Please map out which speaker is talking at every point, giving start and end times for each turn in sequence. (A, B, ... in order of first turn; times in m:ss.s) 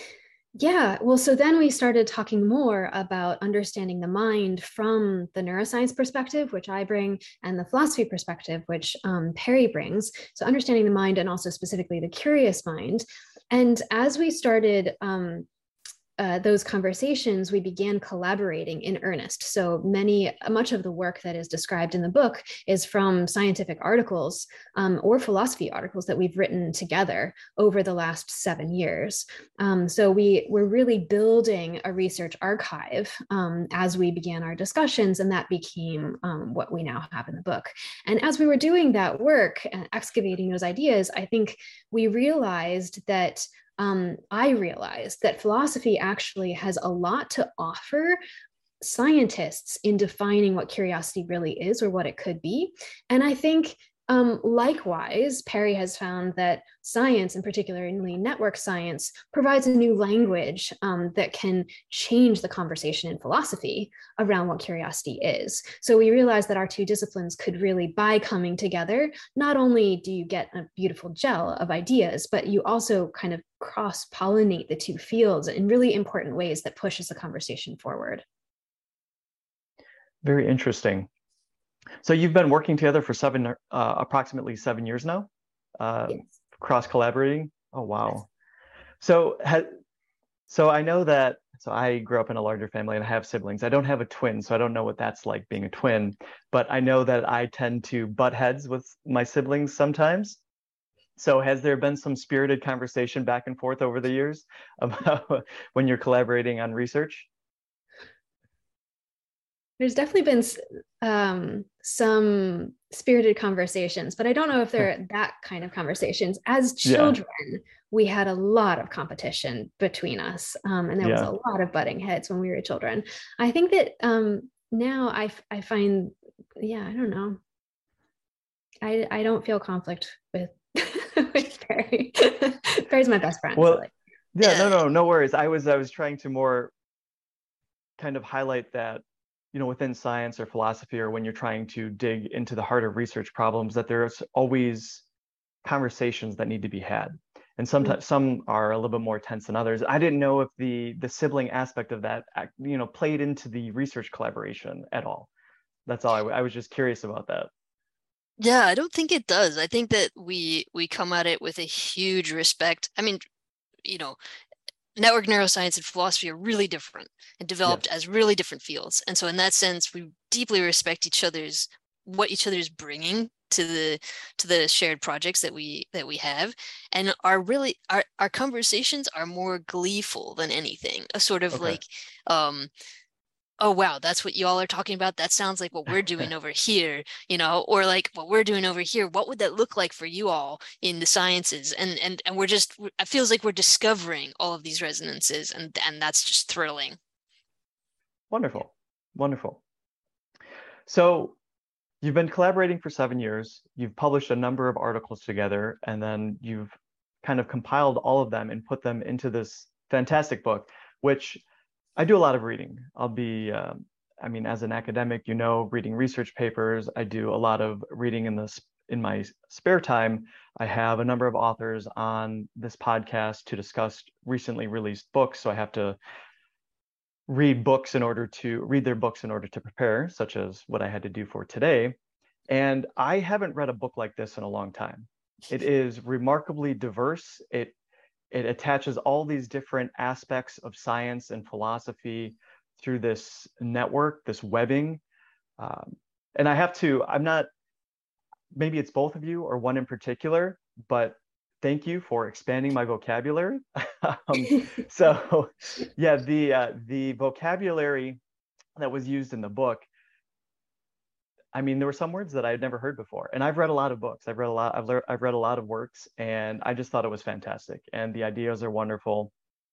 0:00.6-0:15.5 A
0:16.2-0:48.2 A
0:48.8-1:18.2 A
1:20.2-1:21.1 B
1:22.0-1:28.3 B
1:29.0-1:29.7 B
1:30.5-1:40.4 B
1:41.2-1:47.3 B
1:49.8-2:07.4 A
1:56.8-1:57.2 B
2:01.0-2:01.3 B
2:08.8-2:13.9 A
2:13.6-2:16.7 B
2:14.4-2:14.8 C
2:18.0-2:25.0 B
2:25.6-2:35.3 B
2:35.8-2:37.5 B
2:38.4-2:43.2 C
2:43.8-2:44.2 C
2:45.0-3:02.7 C
3:01.5-3:01.8 B
3:03.6-3:17.0 C
3:18.3-3:19.6 B
3:20.9-3:21.4 B
3:22.0-3:26.7 B
3:27.2-3:31.4 B
3:32.0-3:46.0 B
3:47.3-3:52.0 B
3:52.5-3:57.7 B
3:58.3-4:05.0 B
4:05.6-4:07.5 B
4:08.5-4:18.2 B
4:18.8-4:19.8 B
4:21.5-4:29.3 B